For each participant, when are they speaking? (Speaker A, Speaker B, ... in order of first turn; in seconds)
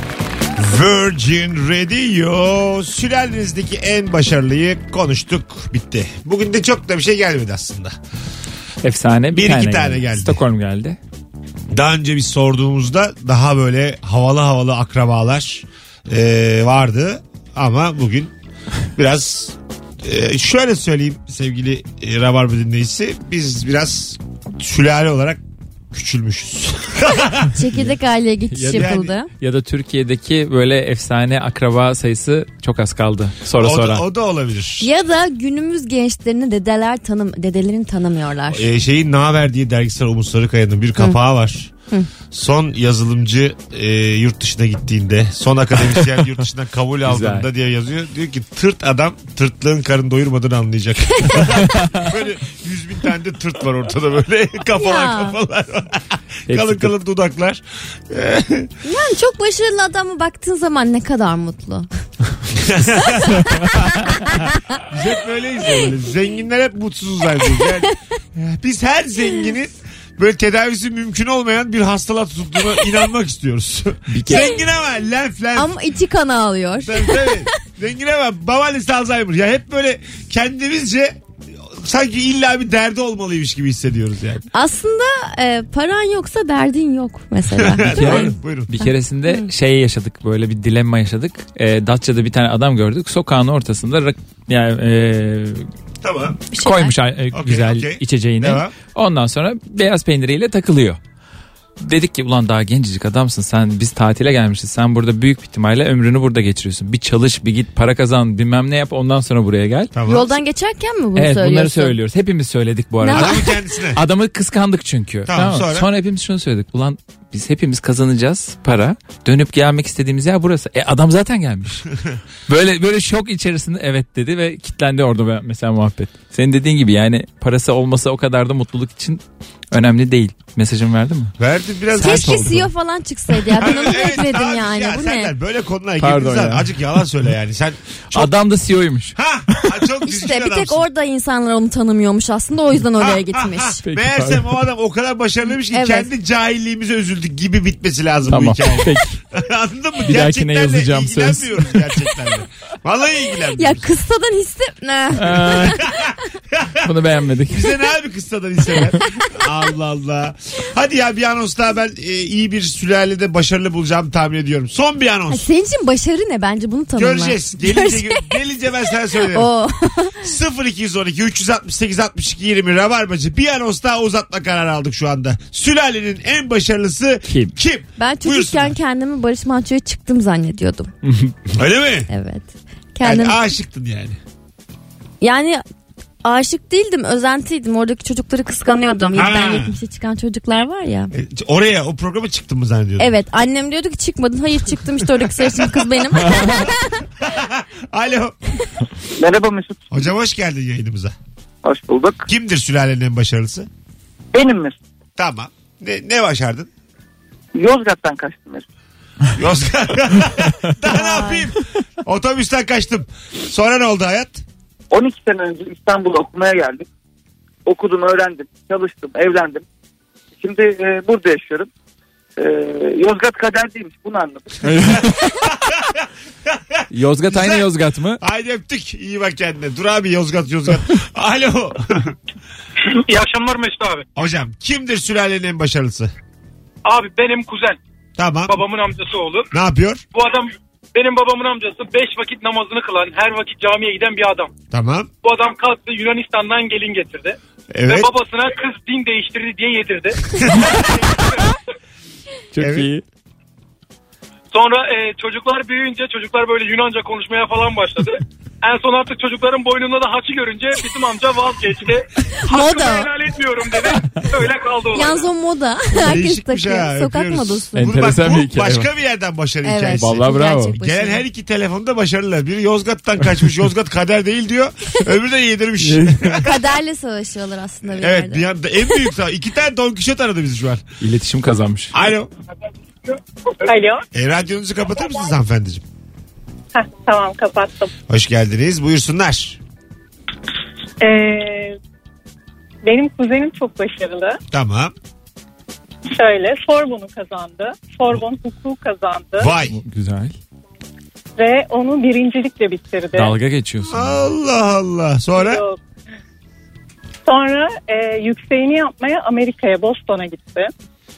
Speaker A: 0.6-8.0, 9.3-10.4, 11.7-18.3, 18.9-25.4, 25.9-27.5, 28.7-29.1, 33.6-34.9, 38.5-41.7, 42.3-58.7, 62.5-63.3, 64.9-75.7, 76.8-84.5, 87.5-88.8, 96.0-96.4, 97.3-98.8, 109.9-110.3, 113.1-114.0, 115.2-115.9, 131.4-132.6, 133.6-138.3, 139.2-140.8, 143.0-153.8, 155.8-156.1, 157.5-165.4, 166.9-169.5, 170.2-178.8, 181.6-182.1, 183.0-184.2, 189.1-189.7, 191.1-193.1, 195.3-195.7, 197.2-198.3, 199.9-201.1, 202.3-203.7, 205.2-206.7, 209.3-214.4, 225.7-226.0, 226.5-227.7, 228.2-232.1, 234.2-236.1, 238.2-238.6, 239.5-240.0, 244.7-245.1, 247.7-248.1, 252.6-252.9, 266.0-276.6, 277.9-280.8, 281.9-282.3, 284.1-285.8, 288.1-289.6, 294.5-294.9, 299.4-299.8, 303.9-305.6
Speaker B: 8.8-11.0, 28.5-34.0, 47.0-47.5, 51.5-52.1, 56.5-56.9, 74.1-74.5, 87.8-95.7, 96.6-101.0, 101.8-109.9, 111.1-121.8, 122.5-131.3, 132.0-132.7, 136.0-137.1, 138.1-139.7, 143.8-144.5, 148.2-149.2, 150.0-151.8, 155.1-155.8, 156.8-157.8, 177.2-177.5, 181.0-181.3, 224.6-225.3, 226.9-228.2, 252.5-253.1, 267.8-268.9, 269.9-270.8, 275.8-276.4, 281.0-281.9, 299.6-300.4, 303.1-304.3
Speaker C: 27.6-29.3, 34.8-38.7, 51.2-51.6, 54.8-55.4, 58.8-61.9, 63.1-64.2, 67.6-67.8, 74.3-74.6, 75.5-77.5, 84.5-89.5, 96.5-96.9, 110.0-111.9, 113.0-113.5, 132.0-135.3, 140.1-143.8, 145.6-146.1, 153.5-155.9, 165.3-168.3, 169.3-170.2, 178.0-180.9, 182.1-183.4, 185.2-185.6, 186.2-191.1, 193.0-197.1, 210.9-211.5, 262.4-263.1, 264.9-267.9, 269.6-271.2, 276.4-278.4
Speaker D: 199.2-200.0, 201.6-202.3, 204.3-204.8, 207.5-208.7, 214.9-216.8, 217.7-219.6, 220.4-221.7, 222.4-224.6
Speaker E: 232.8-234.0, 236.8-237.8, 238.5-239.5, 240.1-244.5, 245.2-247.3, 247.9-251.5, 254.5-265.3
Speaker F: 283.6-284.0, 286.7-287.9, 291.0-291.8, 292.8-294.4, 296.1-299.5, 301.4-303.4, 305.4-305.8, 307.2-310.7